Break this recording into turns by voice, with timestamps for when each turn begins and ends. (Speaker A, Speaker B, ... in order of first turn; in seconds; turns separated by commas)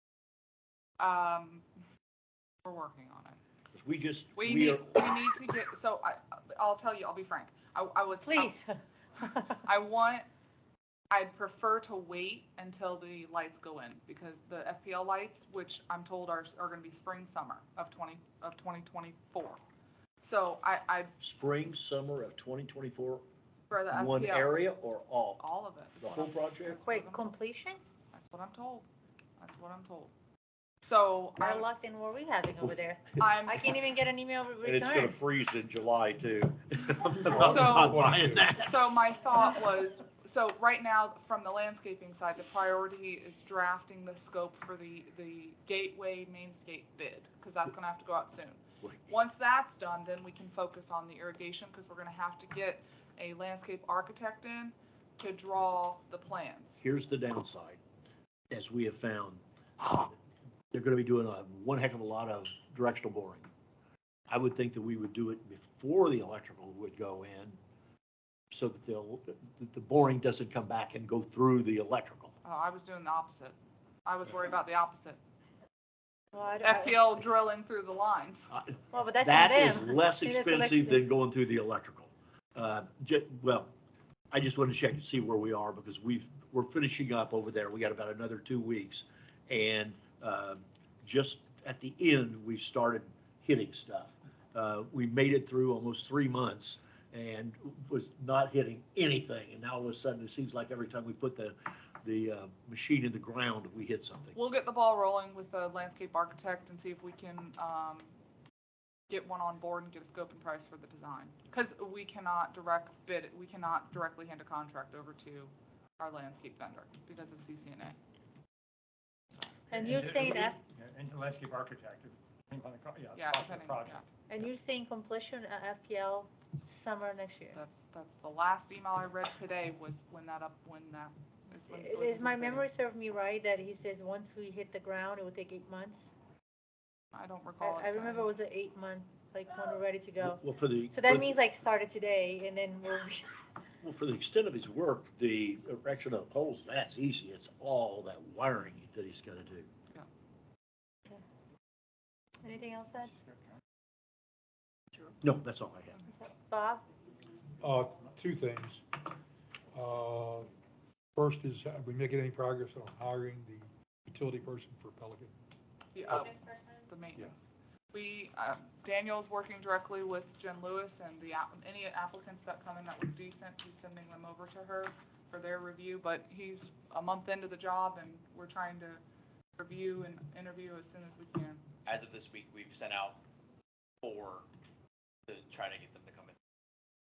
Speaker A: 1.0-1.6, Speaker A: 2.6-3.4, Speaker B: 3.7-5.1, Speaker A: 4.3-8.6, Speaker C: 8.2-9.6, Speaker A: 9.5-10.2, Speaker A: 11.1-19.6, Speaker A: 20.2-21.1, Speaker B: 21.2-23.2, Speaker A: 23.7-24.7, Speaker B: 23.9-25.4, Speaker A: 25.4-27.4, Speaker B: 26.0-26.8, Speaker C: 26.8-27.8, Speaker A: 28.1-28.9, Speaker A: 29.4-30.1, Speaker A: 30.8-31.7, Speaker C: 31.4-35.1, Speaker A: 33.2-33.7, Speaker B: 34.6-38.7, Speaker D: 37.1-38.5, Speaker A: 37.4-56.8, Speaker B: 56.8-57.8, Speaker B: 58.5-60.1, Speaker B: 60.7-63.5, Speaker B: 64.3-67.6, Speaker B: 68.5-72.3, Speaker A: 72.4-75.2, Speaker C: 76.3-77.0, Speaker A: 76.6-78.5, Speaker B: 78.5-83.7, Speaker C: 78.9-81.0, Speaker B: 84.3-104.4, Speaker A: 104.3-108.1, Speaker A: 109.1-117.9, Speaker C: 119.7-120.6, Speaker E: 119.7-124.0, Speaker A: 123.2-124.0, Speaker C: 124.3-127.6, Speaker A: 127.5-132.7, Speaker C: 131.7-136.1, Speaker A: 137.1-138.3, Speaker C: 137.6-143.3, Speaker B: 140.2-141.4, Speaker B: 143.8-149.7, Speaker C: 152.4-153.1, Speaker B: 155.2-156.0, Speaker C: 156.1-156.8, Speaker D: 157.6-158.8, Speaker D: 159.7-160.5, Speaker D: 161.2-165.3, Speaker A: 165.9-167.4, Speaker D: 166.0-166.3, Speaker A: 167.9-179.0, Speaker A: 179.6-181.6, Speaker F: 181.8-183.2, Speaker F: 184.0-184.4, Speaker F: 185.3-186.3